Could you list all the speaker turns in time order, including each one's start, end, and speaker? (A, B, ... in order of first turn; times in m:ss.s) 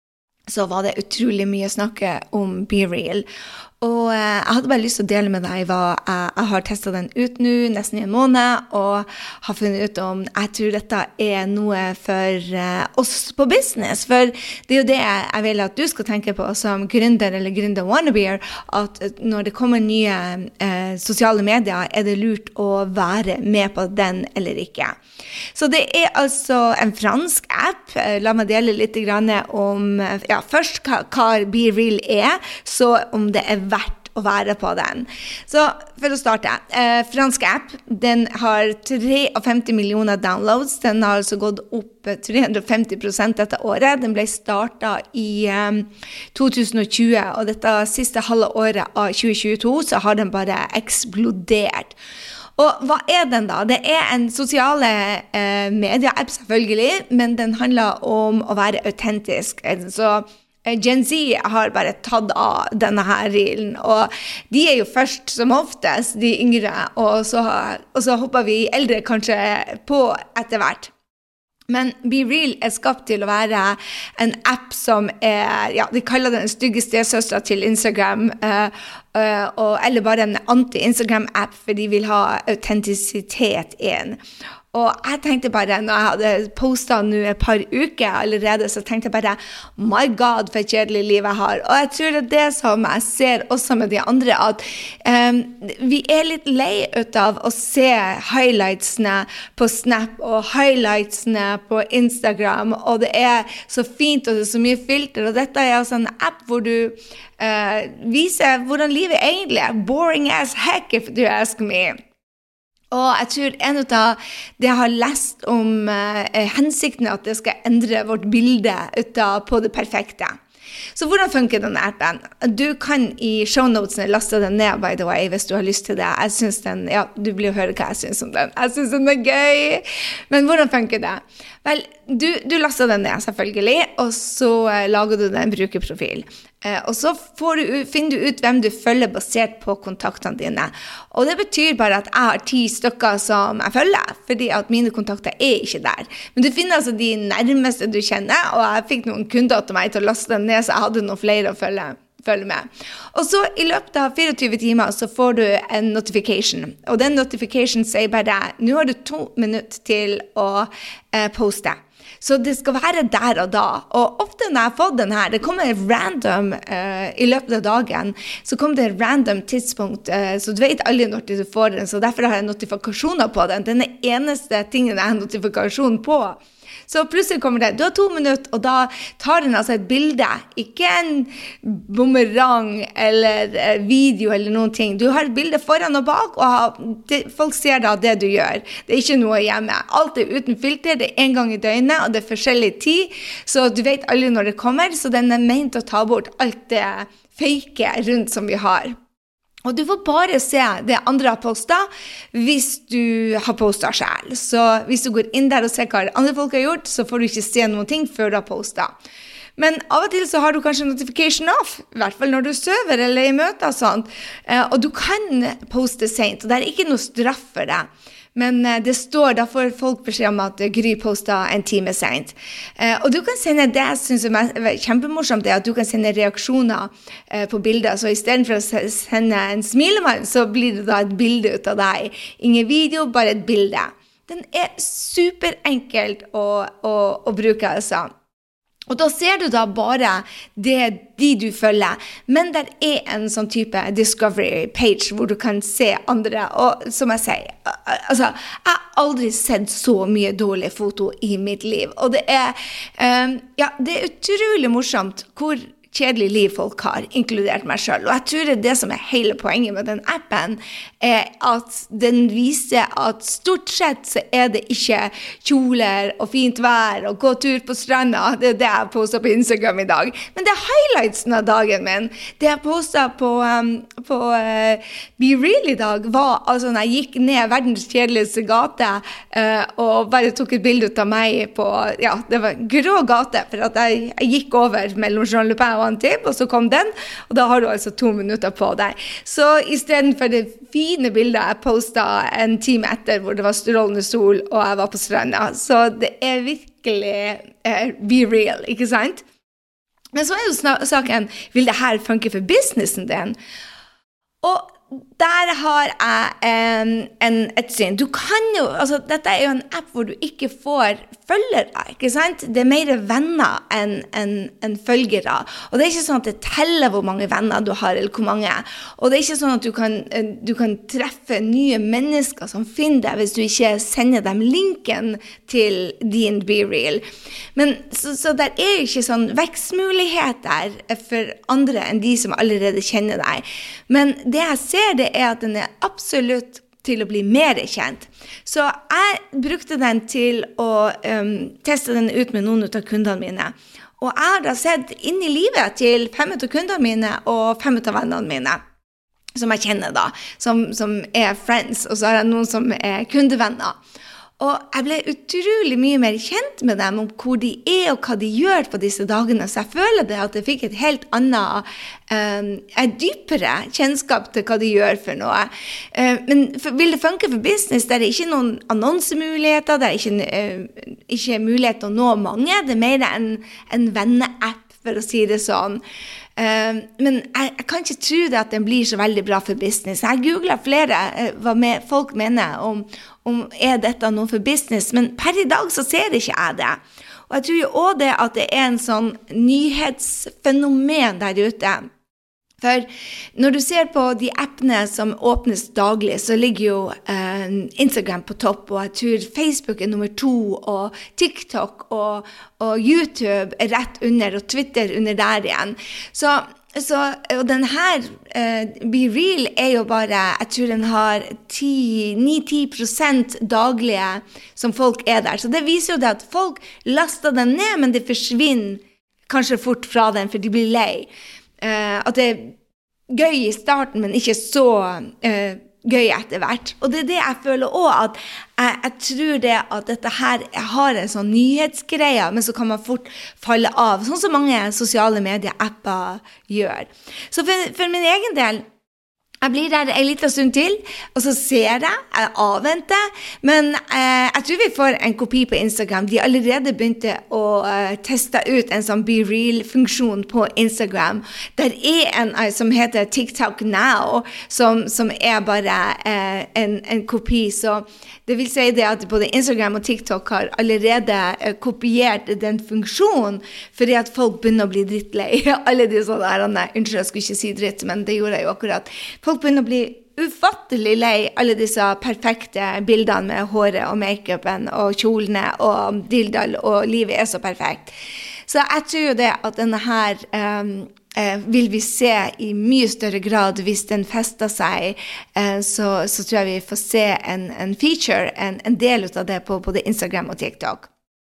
0:00.5-0:03.2 A
0:03.8-0:25.0 A
0:25.5-0:52.0 A
0:52.6-1:10.9 A
1:11.7-1:24.2 A
1:24.7-1:52.0 A
1:52.9-2:00.3 A
2:00.9-3:19.0 A
3:19.6-3:28.9 A
3:29.6-3:58.1 A
3:58.9-4:59.2 A
5:00.1-5:03.4 A
5:04.4-5:27.0 A
5:27.6-5:48.6 A
5:49.4-5:53.8 A
5:54.4-6:15.8 A
6:16.4-6:31.8 A
6:32.6-7:01.1 A
7:01.6-7:02.5 A
7:03.1-7:18.6 A
7:19.4-7:57.9 A
7:58.5-8:10.9 A